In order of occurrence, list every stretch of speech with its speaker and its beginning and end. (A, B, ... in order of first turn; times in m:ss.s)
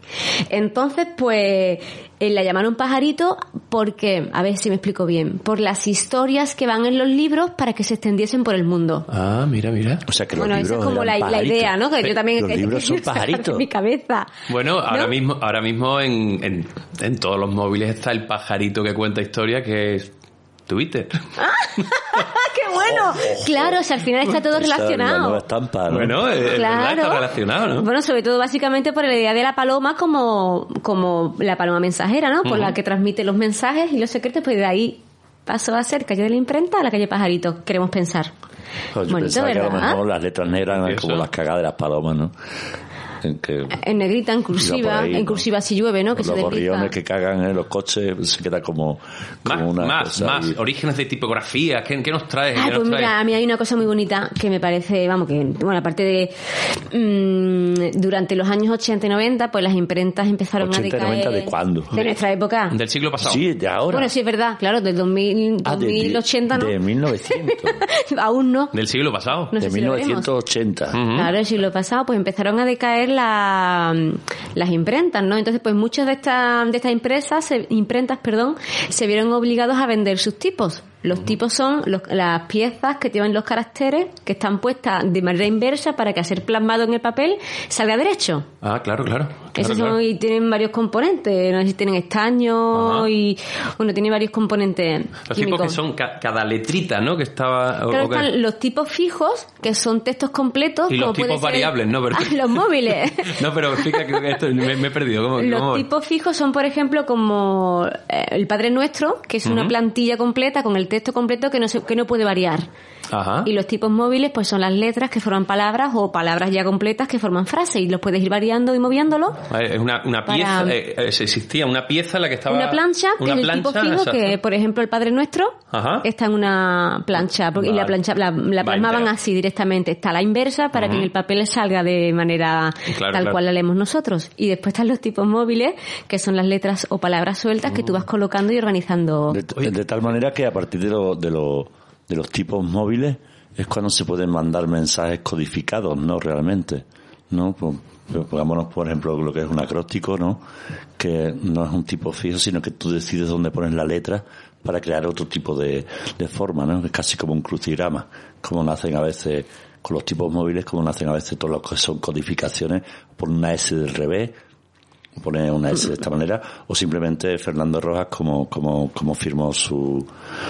0:00.5-0:09.1 A
0:09.1-0:10.0 B
0:10.1-0:13.7 C
0:10.4-0:14.3 A
0:14.5-0:20.1 B
0:20.7-0:21.3 B
0:21.4-0:25.4 A
0:22.8-0:26.3 C
0:25.9-0:27.9 B
0:26.5-0:38.3 A
0:32.4-0:32.8 B
0:38.9-0:42.3 C
0:39.1-0:40.0 A
0:40.8-0:41.3 B
0:43.2-0:43.8 C
0:43.7-0:47.0 A
0:44.6-0:45.4 C
0:46.1-0:50.6 C
0:49.4-0:53.1 B
0:52.6-1:02.8 A
1:00.6-1:02.0 C
1:02.7-1:03.4 B
1:03.2-1:04.1 C
1:03.9-1:06.8 A
1:05.6-1:07.8 C
1:07.3-1:08.7 A
1:08.7-1:09.5 B
1:09.5-1:10.3 A
1:09.6-1:11.1 C
1:10.9-1:11.3 B
1:11.1-1:28.5 A
1:28.6-1:30.0 B
1:29.6-1:35.8 A
1:32.7-1:33.1 B
1:35.3-1:38.3 B
1:37.9-1:44.0 A
1:40.9-1:45.9 B
1:45.4-1:52.7 A
1:49.4-1:49.7 B
1:53.1-1:53.5 B
1:53.4-1:59.4 A
1:59.5-2:04.4 B
2:00.3-2:00.7 A
2:02.5-2:19.4 A
2:05.7-2:06.1 B
2:07.6-2:07.9 B
2:08.6-2:09.1 B
2:10.7-2:11.1 B
2:12.9-2:13.4 B
2:17.7-2:18.0 B
2:19.3-2:30.4 C
2:31.0-2:44.4 C
2:45.2-2:50.1 C